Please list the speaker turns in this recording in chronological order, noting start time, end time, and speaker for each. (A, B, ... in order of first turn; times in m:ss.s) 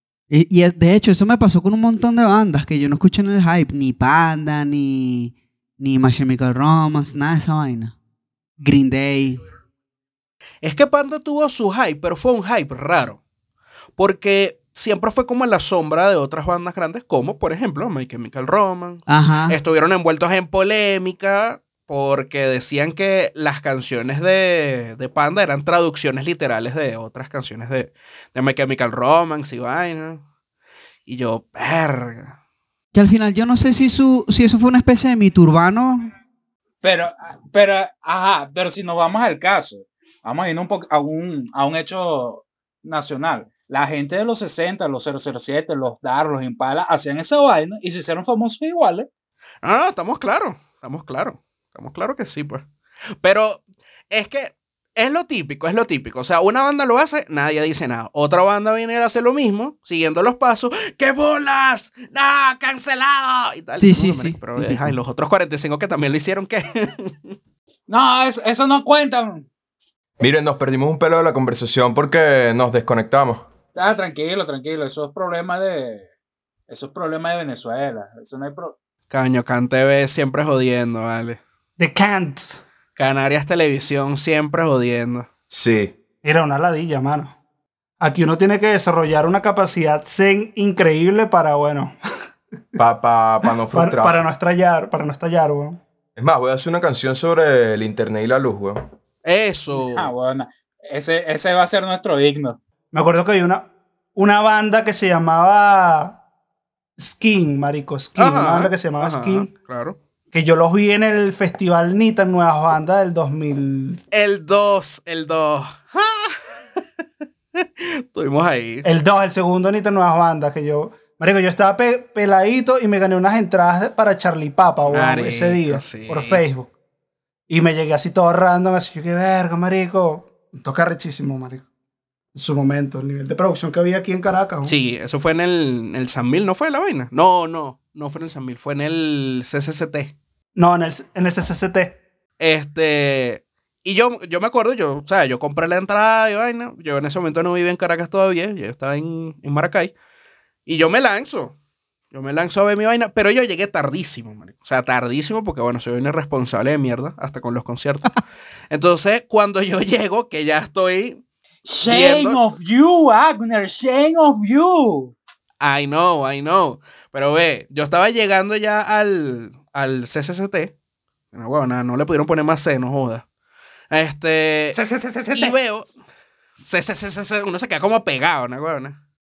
0:00.3-0:07.9 A
0:08.6-0:09.4 A
0:10.6-0:13.2 B
0:14.0-0:30.2 B
0:19.1-0:19.6 A
0:31.1-0:32.4 B
0:32.9-0:36.1 A
0:36.8-0:49.1 C
0:49.6-0:52.7 B
0:53.2-1:07.4 B
1:03.8-1:05.0 A
1:07.9-1:09.5 C
1:10.2-1:13.5 D
1:13.8-1:16.1 C
1:16.7-1:18.8 C
1:19.1-1:21.4 B
1:21.8-1:22.6 E
1:23.0-1:25.3 B
1:25.5-1:26.0 D
1:26.2-1:27.4 E
1:28.0-1:32.0 E
1:32.8-1:34.2 D
1:33.7-1:35.8 E
1:36.2-1:38.9 D
1:39.2-1:40.1 B
1:39.8-1:42.6 C
1:42.9-1:46.2 E
1:47.0-1:49.5 E
1:48.2-1:50.0 B
1:50.3-1:54.0 E
1:54.1-1:56.4 B
1:57.6-1:58.9 B
1:58.8-2:06.7 E
2:04.9-2:06.4 B
2:07.5-2:11.6 E
2:12.4-2:14.8 E
2:14.6-2:20.2 B
2:20.6-2:22.0 E
2:22.4-2:29.9 B
2:30.7-2:31.6 B
2:32.1-2:38.2 B
2:38.7-2:41.2 B
2:41.7-2:45.1 C
2:41.9-2:42.4 B
2:45.6-2:50.7 B
2:51.3-2:53.2 B
2:53.9-2:54.8 B
2:54.8-2:55.6 C
2:55.3-2:55.9 B
2:56.6-2:59.0 B